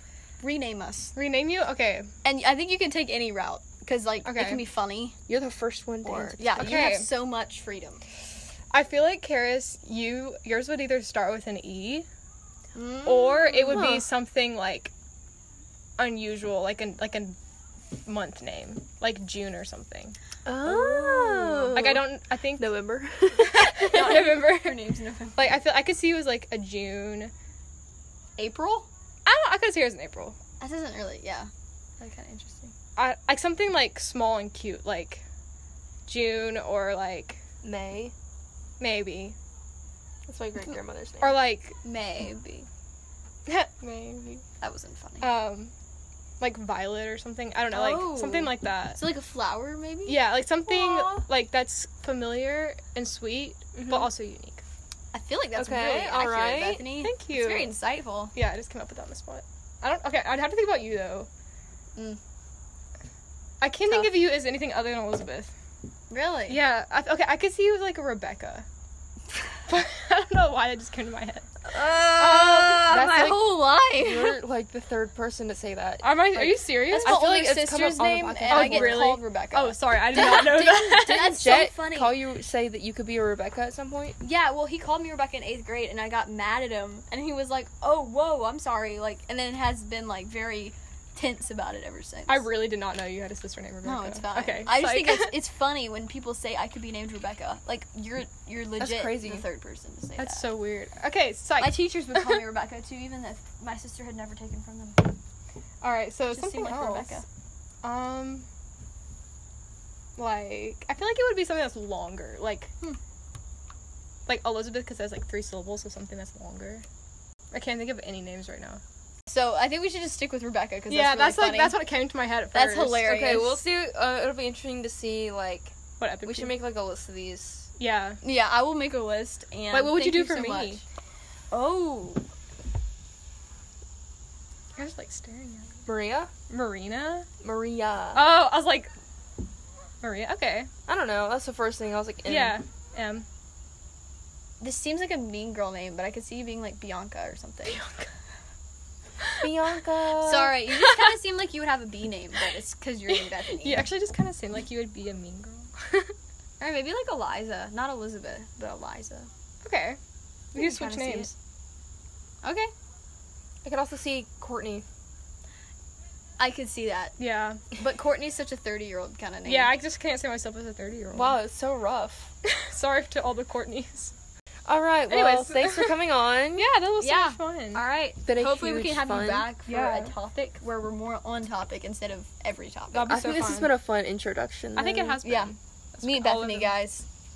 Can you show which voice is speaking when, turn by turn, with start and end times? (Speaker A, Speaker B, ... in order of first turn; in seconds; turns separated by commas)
Speaker A: 0.4-1.1, Speaker B: 1.1-2.1, Speaker A: 2.2-5.2, Speaker B: 4.2-4.6, Speaker C: 5.3-6.9, Speaker A: 6.0-8.0, Speaker B: 6.6-7.1, Speaker B: 8.7-12.1, Speaker A: 12.8-13.8, Speaker B: 13.1-14.9, Speaker C: 13.7-14.1, Speaker B: 16.0-17.4, Speaker B: 18.1-20.2, Speaker C: 20.5-22.1, Speaker A: 20.6-21.9, Speaker B: 21.8-22.8, Speaker C: 22.6-23.9, Speaker B: 23.3-24.8, Speaker A: 23.8-25.6, Speaker B: 25.4-27.3, Speaker A: 28.4-28.9, Speaker B: 29.3-30.4, Speaker A: 30.6-32.7, Speaker B: 33.0-35.2, Speaker B: 36.1-37.4, Speaker C: 37.6-38.1, Speaker B: 38.8-39.4, Speaker C: 40.3-41.4, Speaker B: 41.2-41.8, Speaker A: 41.8-42.7, Speaker B: 43.5-44.4, Speaker A: 44.6-45.3, Speaker B: 45.2-45.7, Speaker B: 46.4-49.0, Speaker A: 47.7-51.3, Speaker B: 50.1-54.6, Speaker A: 55.1-58.3, Speaker C: 55.5-56.9, Speaker B: 57.0-57.7, Speaker B: 58.3-61.3, Speaker B: 63.6-65.5, Speaker A: 63.8-64.2, Speaker A: 66.1-66.6, Speaker B: 66.5-68.7, Speaker B: 69.7-71.5, Speaker A: 71.7-74.4, Speaker C: 72.2-79.1, Speaker B: 76.0-77.2, Speaker A: 76.7-82.2, Speaker B: 78.5-81.4, Speaker C: 81.1-84.2, Speaker A: 84.2-92.5, Speaker B: 92.3-95.4, Speaker A: 93.8-100.5, Speaker C: 98.8-99.4, Speaker B: 100.2-102.5, Speaker A: 101.6-105.2, Speaker B: 105.8-107.2, Speaker A: 106.3-107.2, Speaker B: 107.8-108.5, Speaker B: 110.2-112.7, Speaker B: 114.3-116.8, Speaker B: 117.5-118.8, Speaker A: 119.3-121.8, Speaker B: 120.9-123.2, Speaker A: 122.5-123.6, Speaker C: 123.0-127.7, Speaker B: 126.0-126.5, Speaker B: 127.8-128.2, Speaker A: 128.2-130.8, Speaker B: 129.7-130.8, Speaker A: 131.5-132.2, Speaker B: 134.8-135.8, Speaker C: 135.9-136.3, Speaker B: 136.5-137.3, Speaker C: 137.4-138.3, Speaker B: 138.1-138.9, Speaker B: 140.0-140.7, Speaker C: 140.9-142.6, Speaker B: 142.2-143.3, Speaker A: 144.6-147.8, Speaker B: 147.7-148.1, Speaker C: 149.4-150.6, Speaker A: 150.2-153.9, Speaker B: 153.5-156.1, Speaker A: 156.6-159.3, Speaker B: 159.6-160.0, Speaker B: 160.5-161.3, Speaker A: 160.6-161.3, Speaker A: 162.4-162.7, Speaker C: 163.6-164.8, Speaker A: 166.4-167.2, Speaker B: 167.2-167.6, Speaker A: 167.7-169.7, Speaker B: 169.5-171.4, Speaker C: 171.1-172.3, Speaker B: 172.4-174.1, Speaker C: 174.7-176.7, Speaker B: 175.1-175.9, Speaker B: 176.6-177.8, Speaker A: 177.0-183.3, Speaker C: 178.2-179.5, Speaker B: 179.7-180.1, Speaker B: 182.9-183.7, Speaker C: 183.1-185.2, Speaker B: 184.8-186.8, Speaker A: 185.2-187.1